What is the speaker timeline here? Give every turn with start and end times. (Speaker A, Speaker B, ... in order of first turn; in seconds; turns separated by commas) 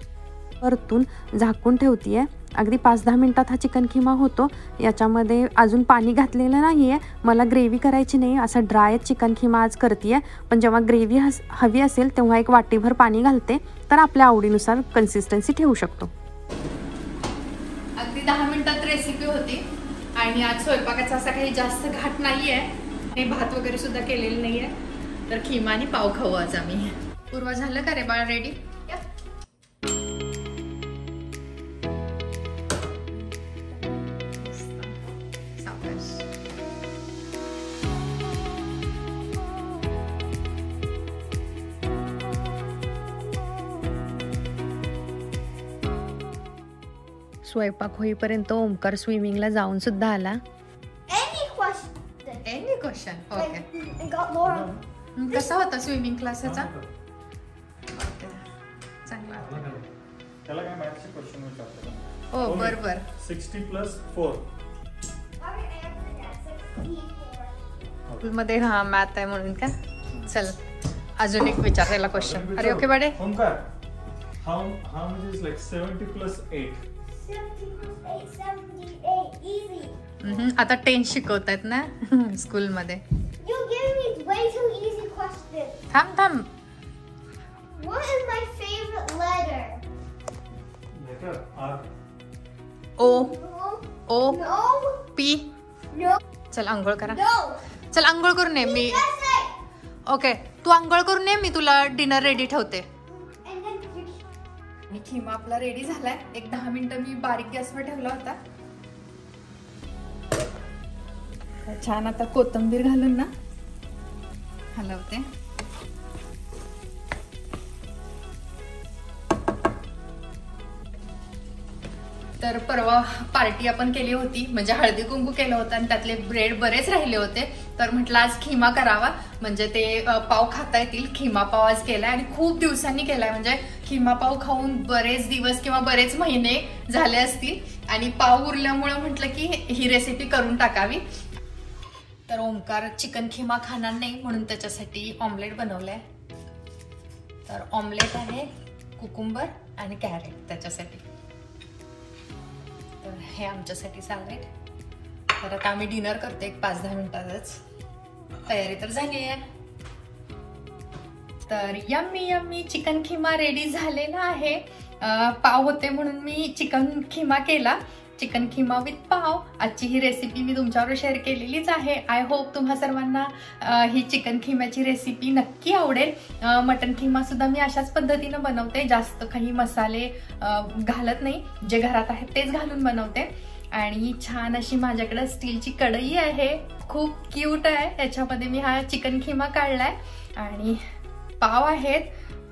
Speaker A: 0.6-16.1, Speaker A: 18.0-24.7, Speaker A: 25.3-29.0, Speaker A: 34.3-35.0, Speaker A: 35.6-36.3, Speaker A: 47.4-50.4, Speaker B: 51.1-52.4, Speaker A: 52.4-53.6, Speaker B: 53.4-54.7, Speaker C: 54.4-54.8, Speaker A: 55.1-56.7, Speaker C: 56.4-56.9, Speaker A: 57.9-58.4, Speaker A: 59.0-59.8, Speaker C: 59.4-59.9, Speaker C: 60.4-64.5, Speaker A: 62.3-63.0, Speaker B: 65.4-67.7, Speaker A: 68.2-70.6, Speaker A: 71.2-73.2, Speaker C: 72.1-73.7, Speaker C: 74.4-76.8, Speaker B: 77.1-80.0, Speaker A: 80.2-83.0, Speaker B: 83.4-85.8, Speaker A: 85.9-86.5, Speaker B: 87.7-89.8, Speaker C: 90.9-91.9, Speaker A: 93.0-93.4, Speaker B: 93.0-93.9, Speaker A: 94.1-94.6, Speaker B: 94.4-95.0, Speaker A: 95.1-95.5, Speaker B: 95.9-96.2, Speaker A: 96.5-97.2, Speaker B: 97.1-97.6, Speaker A: 97.9-99.0, Speaker B: 98.6-99.5, Speaker A: 100.1-102.9, Speaker B: 103.1-104.2, Speaker A: 104.9-108.4, Speaker A: 111.6-113.3, Speaker A: 114.7-115.3, Speaker A: 122.4-141.0, Speaker A: 142.3-146.0, Speaker A: 147.4-151.0, Speaker A: 153.0-154.5, Speaker A: 155.3-157.6, Speaker A: 158.4-159.4, Speaker A: 161.4-190.8, Speaker A: 191.4-192.1